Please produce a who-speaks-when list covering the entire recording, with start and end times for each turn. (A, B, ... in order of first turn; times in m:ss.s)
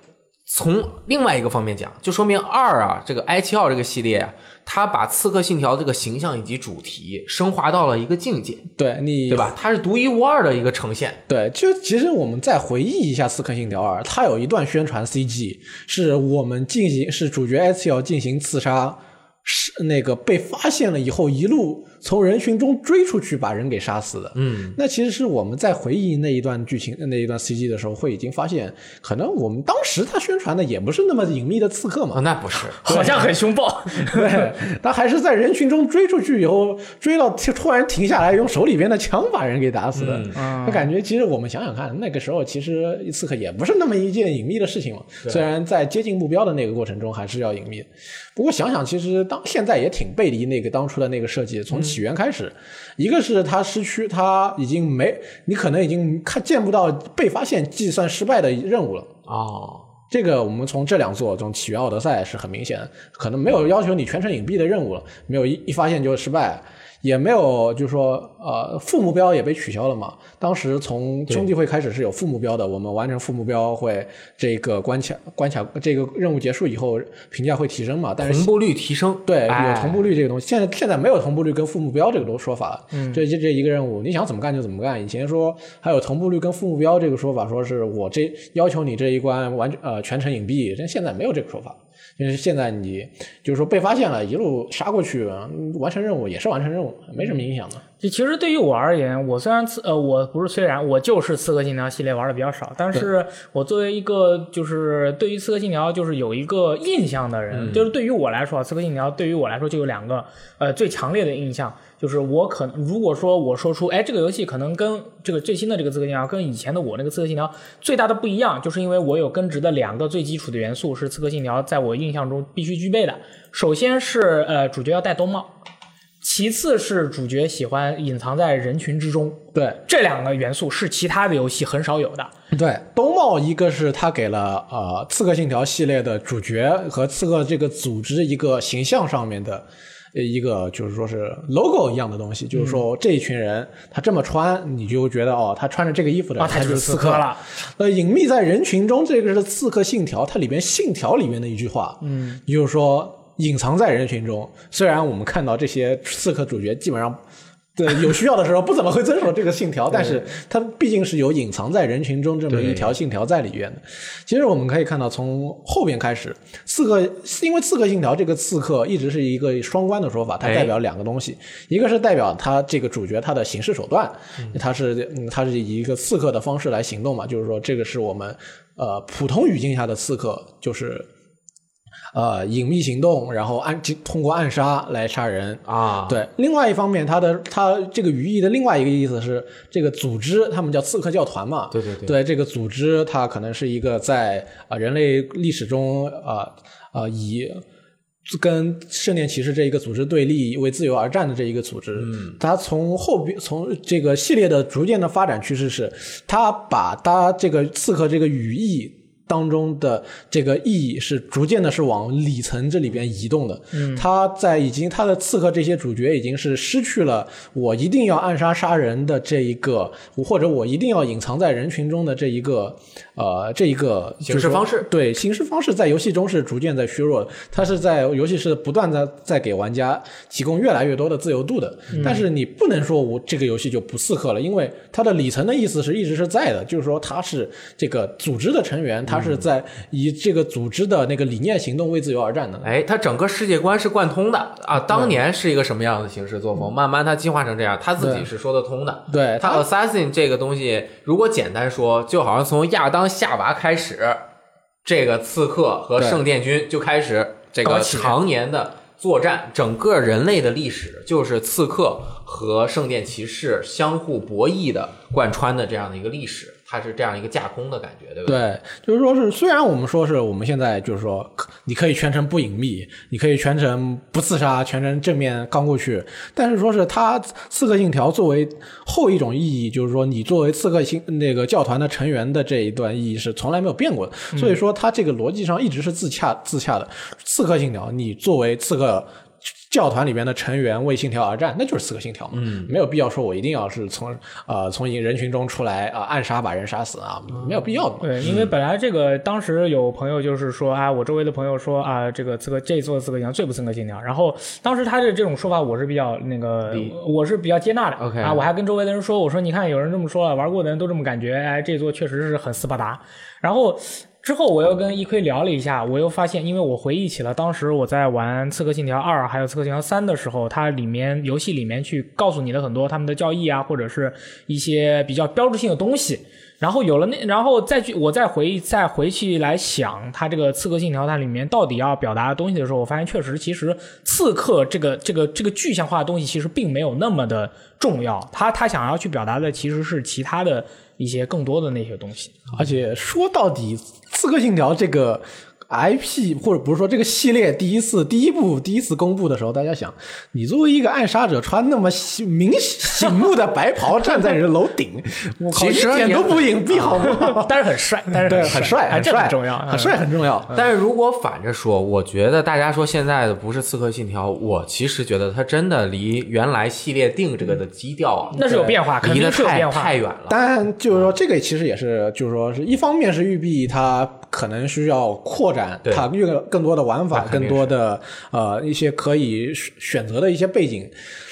0:00.5-0:08.7 A
0:08.8-0:09.5 B
0:09.3-0:11.2 A
0:11.3-0:32.2 B
0:24.4-0:24.8 A
0:32.1-0:32.8 A
0:32.8-0:33.2 B
0:32.8-0:34.5 C
0:34.0-0:59.1 B
0:39.9-0:40.4 A
0:40.4-0:40.8 C
0:59.3-0:59.9 A
1:00.1-1:18.5 B
1:18.2-1:20.0 A
1:19.2-1:37.8 B
1:22.9-1:23.2 C
1:38.0-2:05.5 C
1:47.5-1:47.9 A
2:06.2-2:12.3 C
2:09.5-2:09.8 B
2:12.5-2:37.2 B
2:22.5-2:22.8 C
2:26.4-2:27.4 C
2:32.0-2:32.4 C
2:37.8-3:01.1 B
2:42.5-2:43.0 A
2:50.4-2:50.7 A
3:02.1-3:17.6 B
3:05.7-3:06.2 A
3:11.7-3:12.1 A
3:18.3-4:02.7 B
3:22.0-3:22.3 A
3:33.7-3:34.0 C
3:44.2-3:44.9 A
3:51.9-3:52.2 C
3:59.1-3:59.4 A
4:02.6-4:14.2 A
4:04.9-4:05.2 B
4:08.0-4:08.3 B
4:09.1-4:09.6 B
4:14.8-4:28.4 A
4:16.0-4:16.2 B
4:17.6-4:18.1 C
4:28.2-4:49.1 B
4:49.7-4:58.3 B
4:52.3-4:52.7 A
4:58.0-5:42.4 C
4:58.2-4:58.5 A
5:06.7-5:06.9 A
5:08.0-5:08.4 A
5:42.5-5:57.5 B
5:55.5-5:57.0 A
5:57.0-6:00.0 C
5:58.2-6:00.5 B
6:00.5-6:08.4 A
6:08.3-6:09.9 C
6:08.4-6:08.8 B
6:08.9-6:10.4 A
6:10.3-6:20.9 B
6:17.1-6:17.7 A